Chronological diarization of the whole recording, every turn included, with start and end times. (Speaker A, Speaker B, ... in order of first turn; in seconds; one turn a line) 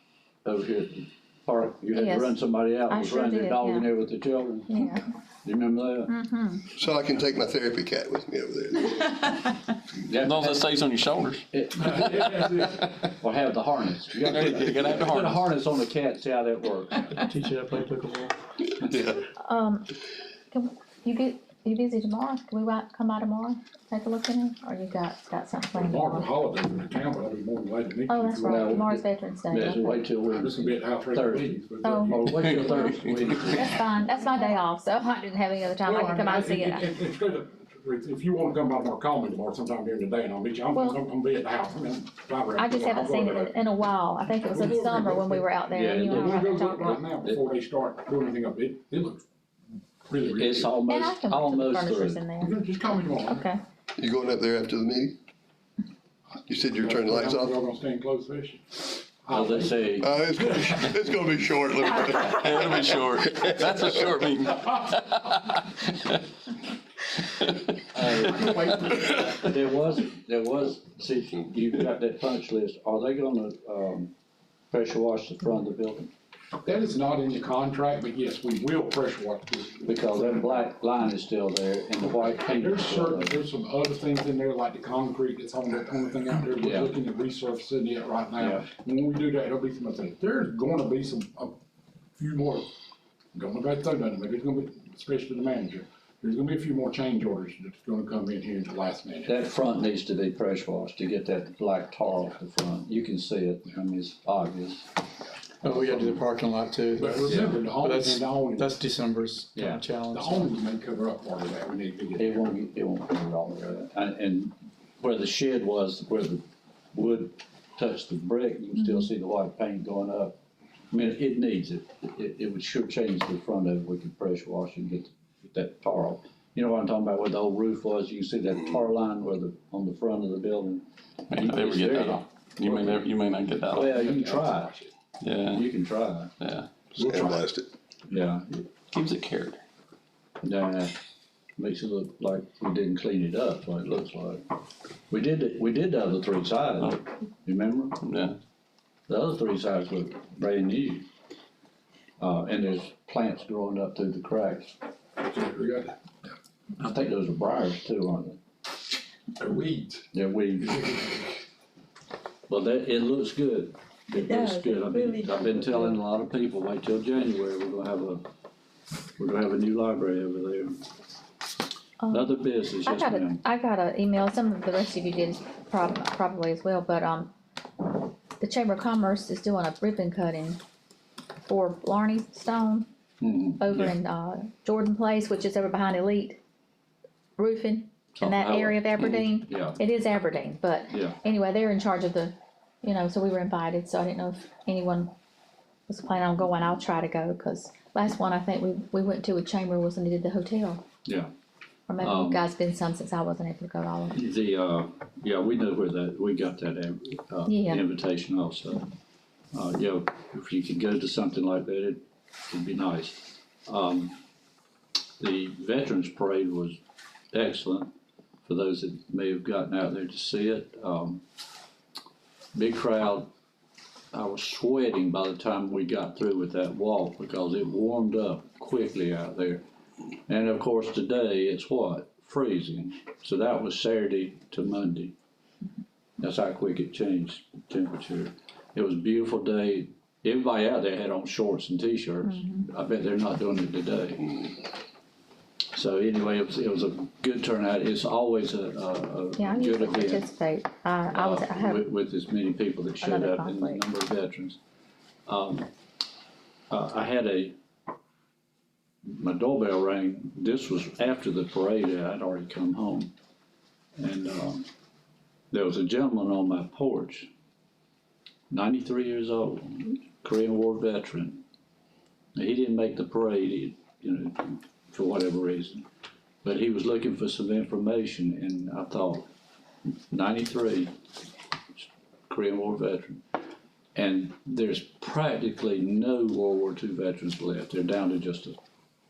Speaker A: 0.4-4.8
Speaker B: 1.9-4.0
Speaker B: 4.7-5.0
Speaker A: 5.4-6.1
Speaker B: 6.0-6.7
Speaker C: 6.7-9.4
Speaker A: 10.0-10.7
Speaker D: 10.2-12.2
Speaker A: 11.5-17.1
Speaker D: 14.2-15.5
Speaker E: 17.1-18.3
Speaker C: 18.8-19.1
Speaker B: 19.4-19.9
Speaker B: 20.5-26.4
Speaker F: 25.8-28.9
Speaker B: 28.1-30.1
Speaker A: 28.4-33.8
Speaker F: 30.2-32.6
Speaker B: 31.8-32.2
Speaker D: 32.3-33.3
Speaker B: 33.5-37.0
Speaker F: 35.8-43.5
Speaker B: 40.7-41.0
Speaker B: 42.5-47.0
Speaker F: 44.4-45.5
Speaker A: 45.7-46.5
Speaker F: 46.1-49.2
Speaker F: 50.1-50.8
Speaker A: 50.2-52.2
Speaker B: 50.8-52.5
Speaker F: 52.4-53.4
Speaker B: 53.3-53.6
Speaker C: 54.0-55.1
Speaker C: 56.5-57.5
Speaker F: 56.8-59.9
Speaker A: 59.3-60.1
Speaker C: 60.0-62.9
Speaker D: 62.2-66.2
Speaker D: 67.3-69.0
Speaker A: 67.9-74.1
Speaker F: 68.4-68.9
Speaker A: 74.7-76.1
Speaker F: 76.6-80.2
Speaker A: 79.8-83.4
Speaker F: 82.1-91.5
Speaker A: 86.6-86.9
Speaker A: 88.4-88.7
Speaker F: 92.2-92.7
Speaker F: 93.3-99.3
Speaker A: 99.2-104.9
Speaker E: 105.6-110.5
Speaker A: 105.7-106.2
Speaker F: 107.0-108.7
Speaker A: 107.3-107.5
Speaker A: 109.5-109.8
Speaker F: 110.1-112.5
Speaker A: 112.2-120.3
Speaker A: 120.9-132.7
Speaker D: 131.3-134.0
Speaker F: 132.7-133.1
Speaker A: 133.7-134.8
Speaker F: 133.7-134.9
Speaker D: 135.2-135.6
Speaker A: 135.5-136.3
Speaker D: 136.4-136.7
Speaker C: 137.0-137.7
Speaker F: 137.0-137.3
Speaker A: 138.1-138.7
Speaker D: 138.9-139.6
Speaker A: 140.4-140.9
Speaker A: 141.6-144.4
Speaker A: 145.1-148.0
Speaker D: 148.0-148.4
Speaker A: 149.1-151.1
Speaker A: 152.2-154.7
Speaker F: 155.2-155.9
Speaker A: 156.8-158.4
Speaker F: 159.4-160.0
Speaker A: 160.1-161.0
Speaker F: 160.6-161.2
Speaker A: 162.5-168.2
Speaker A: 169.2-170.8
Speaker B: 172.0-177.3
Speaker A: 172.1-173.4
Speaker B: 178.4-180.6
Speaker B: 181.4-182.9
Speaker A: 183.2-183.9
Speaker B: 183.6-186.4
Speaker B: 187.4-195.1
Speaker A: 188.1-189.8
Speaker A: 190.9-191.2
Speaker B: 195.9-200.8
Speaker B: 201.9-204.2
Speaker A: 202.0-202.4
Speaker A: 204.1-208.9
Speaker B: 207.4-207.9
Speaker A: 209.5-214.2
Speaker A: 215.2-216.8
Speaker A: 217.3-217.9
Speaker A: 218.4-221.2
Speaker A: 222.5-223.3
Speaker A: 224.1-229.6
Speaker A: 230.3-235.1
Speaker A: 236.2-244.6
Speaker B: 242.2-242.7
Speaker A: 245.7-250.3
Speaker B: 249.3-251.9
Speaker A: 251.1-254.6
Speaker B: 253.0-253.8
Speaker A: 255.3-255.7
Speaker A: 256.7-257.5
Speaker A: 259.0-263.1
Speaker A: 264.0-264.6
Speaker A: 265.5-267.3
Speaker A: 268.5-271.4
Speaker A: 272.4-275.8
Speaker A: 276.4-279.3
Speaker A: 280.1-280.9
Speaker A: 281.8-283.2
Speaker A: 283.9-288.6